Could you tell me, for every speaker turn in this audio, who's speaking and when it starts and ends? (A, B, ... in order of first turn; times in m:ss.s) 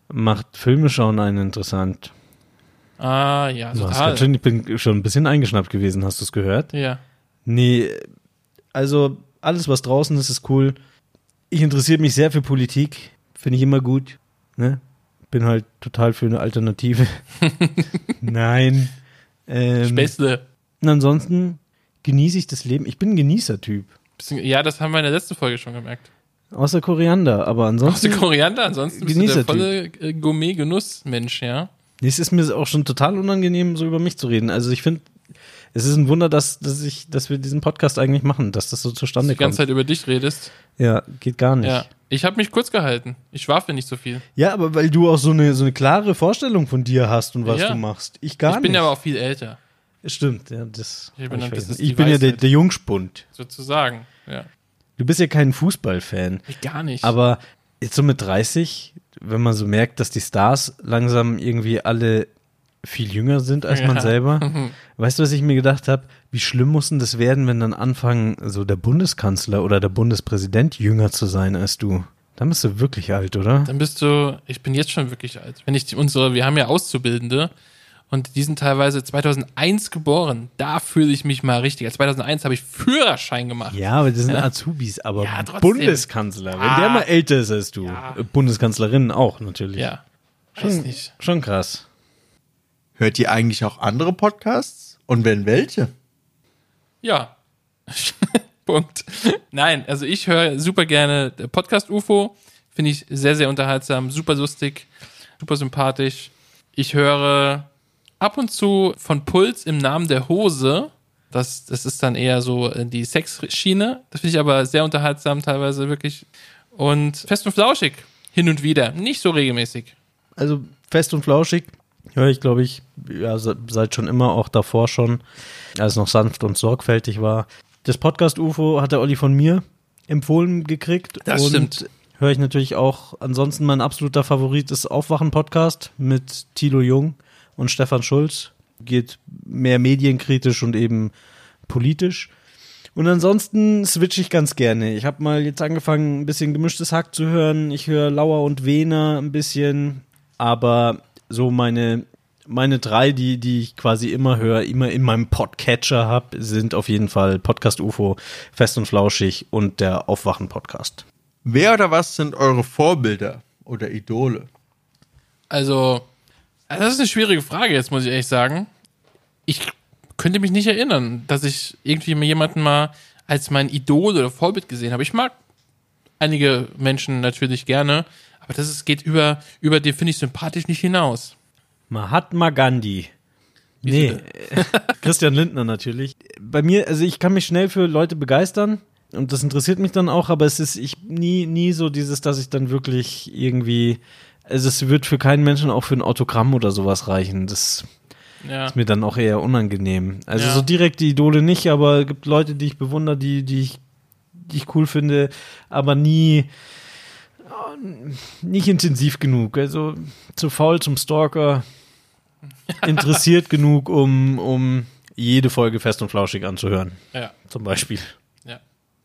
0:00.1-0:02.1 A
0:03.0-0:04.3 B
0:03.7-0:06.7 A
0:06.7-0:07.0 B
0:07.4-0:08.0 A
0:08.7-0:10.8 A
0:11.5-0:17.2 A
0:17.5-0:18.1 B
0:18.2-0:18.9 A
0:19.5-0:20.1 A
0:19.8-0:20.4 B
0:20.8-0:23.9 A
0:24.2-0:26.1 B
0:26.5-0:28.3 A
0:27.8-0:31.7 B
0:28.9-0:29.7 A
0:32.0-0:35.1 A
0:35.7-0:39.6 A
0:39.2-0:40.5 B
0:40.8-0:41.9 A
0:41.6-0:44.2 B
0:44.4-0:48.9 A
0:47.4-0:47.8 B
0:48.5-0:49.6 B
0:50.0-0:53.2 A
0:51.2-0:52.5 B
0:53.3-0:54.5 B
0:55.0-0:56.5 A
0:56.5-0:57.1 B
0:57.0-1:02.3 A
1:02.8-1:13.7 A
1:03.7-1:04.8 B
1:13.6-1:17.5 B
1:18.1-1:24.5 B
1:23.7-1:29.9 A
1:25.2-1:27.1 B
1:27.8-1:28.2 B
1:29.8-1:30.0 B
1:30.6-1:31.1 B
1:30.6-1:31.8 A
1:33.0-1:35.9 C
1:37.0-1:37.3 B
1:37.9-1:47.7 B
1:48.2-1:59.9 B
2:00.4-2:05.2 A
2:05.8-2:21.1 A
2:11.3-2:11.7 B
2:21.7-2:22.3 A
2:22.9-2:41.0 A
2:41.4-2:44.5 C
2:45.5-2:46.1 B
2:46.7-2:48.7 B
2:49.5-2:55.4 B
2:56.2-3:01.3 B
3:01.9-3:03.1 A
3:03.8-3:17.8 A
3:03.8-3:05.0 B
3:18.4-3:18.7 B
3:18.7-3:23.8 A
3:20.3-3:20.7 B
3:24.4-3:26.5 A
3:27.4-3:31.6 A
3:32.7-3:33.2 B
3:32.8-3:38.2 A